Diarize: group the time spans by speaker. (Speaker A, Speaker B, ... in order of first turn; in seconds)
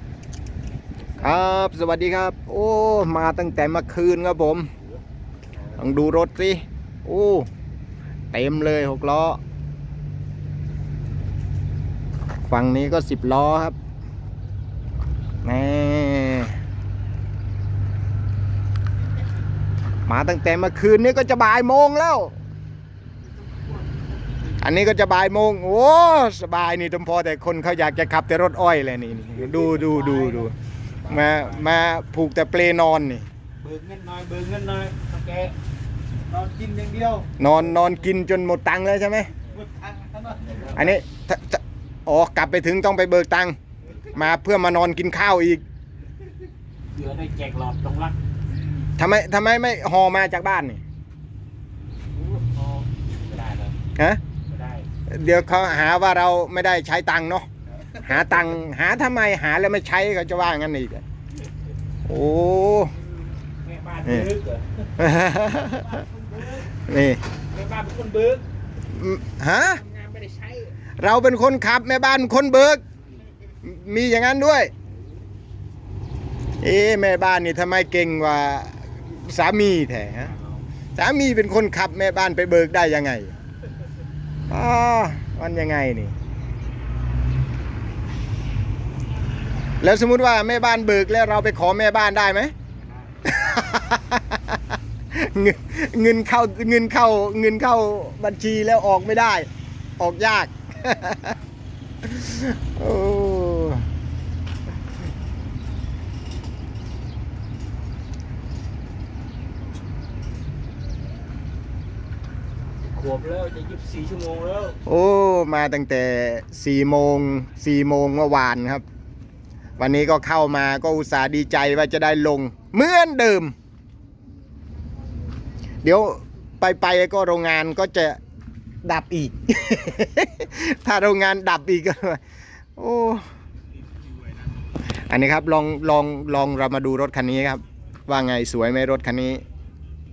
Speaker A: 1.2-4.7, 5.7-7.5, 8.3-9.4, 12.5-13.8, 15.4-16.6, 20.1-22.4, 24.6-30.5, 31.1-33.3, 37.4-39.3, 40.7-43.6, 44.1-45.6, 49.0-50.8, 55.1-57.5, 58.0-61.0, 62.1-62.9, 65.0-66.0, 66.7-67.2, 68.9-69.8, 71.0-72.8, 73.6-74.7, 76.6-80.3, 81.0-83.3, 84.5-86.1, 89.8-92.5, 93.3-94.6, 95.1-99.5, 100.0-101.4, 102.0-103.9, 114.9-118.8, 119.8-123.5, 125.8-128.2, 128.8-132.2, 132.8-133.2, 135.0-139.4
Speaker B: 29.4-31.7, 33.6-35.5, 36.3-37.3, 39.6-41.0, 46.9-48.2, 52.2-53.8, 54.5-54.9, 63.5-64.9, 65.6-66.7, 67.5-68.4, 69.7-70.7, 80.2-80.6, 92.8-93.2, 112.8-114.8